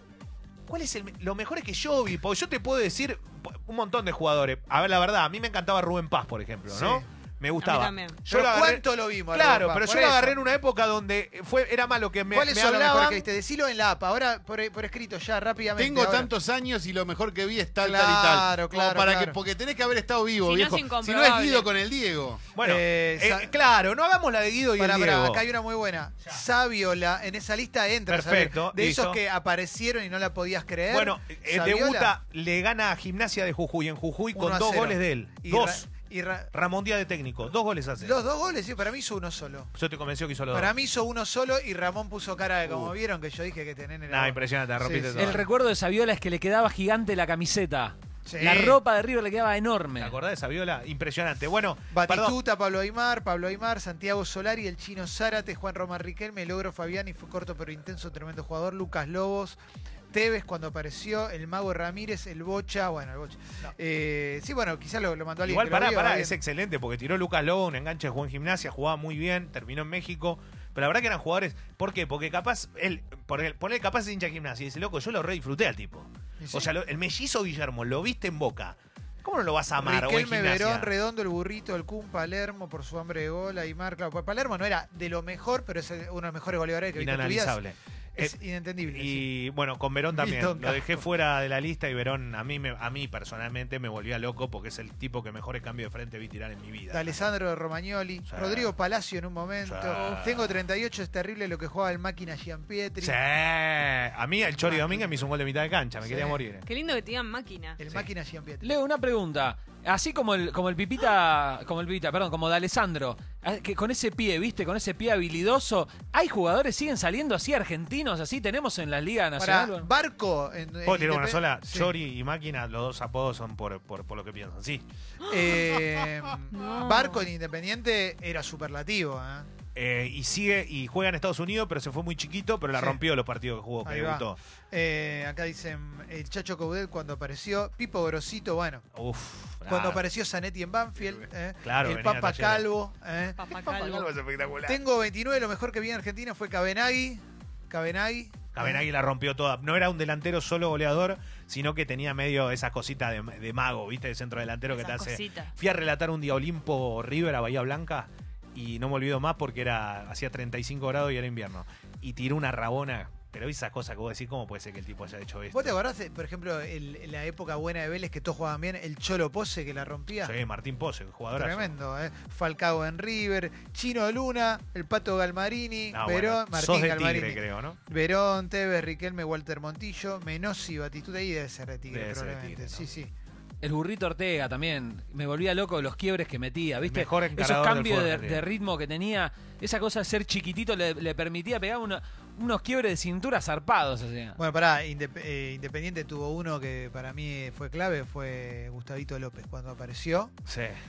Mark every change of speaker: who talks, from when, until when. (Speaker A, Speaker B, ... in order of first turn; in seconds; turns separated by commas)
Speaker A: 0.7-13.3, Speaker B: 6.7-7.0, Speaker C: 7.6-8.2, Speaker B: 8.3-10.4, Speaker B: 12.3-16.3, Speaker D: 15.8-22.4, Speaker B: 17.8-19.4, Speaker C: 20.4-21.7, Speaker A: 22.5-25.4, Speaker B: 22.6-23.5, Speaker B: 24.8-32.1, Speaker A: 28.1-29.2, Speaker A: 30.9-35.9, Speaker B: 34.4-36.5, Speaker A: 36.5-38.2, Speaker B: 38.0-39.7, Speaker A: 39.7-40.7, Speaker B: 40.5-45.5, Speaker A: 42.6-42.9, Speaker A: 44.1-45.5, Speaker E: 45.1-50.1, Speaker B: 48.2-48.7, Speaker A: 48.5-48.8, Speaker A: 50.0-52.4, Speaker B: 51.9-59.6, Speaker B: 60.1-66.4, Speaker A: 65.4-80.9, Speaker B: 76.4-76.7, Speaker B: 79.8-87.6, Speaker A: 87.0-97.3, Speaker B: 88.2-89.3, Speaker B: 90.1-91.0, Speaker B: 96.9-103.2, Speaker A: 98.2-98.7, Speaker A: 99.6-100.6, Speaker C: 99.9-100.2, Speaker A: 103.0-106.7, Speaker B: 104.5-105.3, Speaker B: 106.0-106.4, Speaker C: 106.7-107.8, Speaker B: 107.8-108.8, Speaker E: 108.6-119.9, Speaker B: 119.4-121.9, Speaker A: 120.8-124.8, Speaker B: 125.3-129.5, Speaker C: 125.3-127.2, Speaker A: 129.8-134.4, Speaker B: 132.7-133.0, Speaker B: 133.8-138.8, Speaker A: 138.9-140.0, Speaker B: 139.7-143.4, Speaker D: 141.0-141.3, Speaker A: 141.6-142.7, Speaker C: 143.4-144.1, Speaker A: 143.5-144.8, Speaker B: 144.7-148.8, Speaker A: 148.5-165.8, Speaker C: 154.7-155.5, Speaker B: 165.5-170.3, Speaker A: 170.2-171.7, Speaker B: 171.3-183.1, Speaker A: 175.9-177.8, Speaker A: 181.9-182.9, Speaker E: 183.6-194.4, Speaker A: 186.8-188.4, Speaker B: 194.4-200.3, Speaker A: 200.5-200.8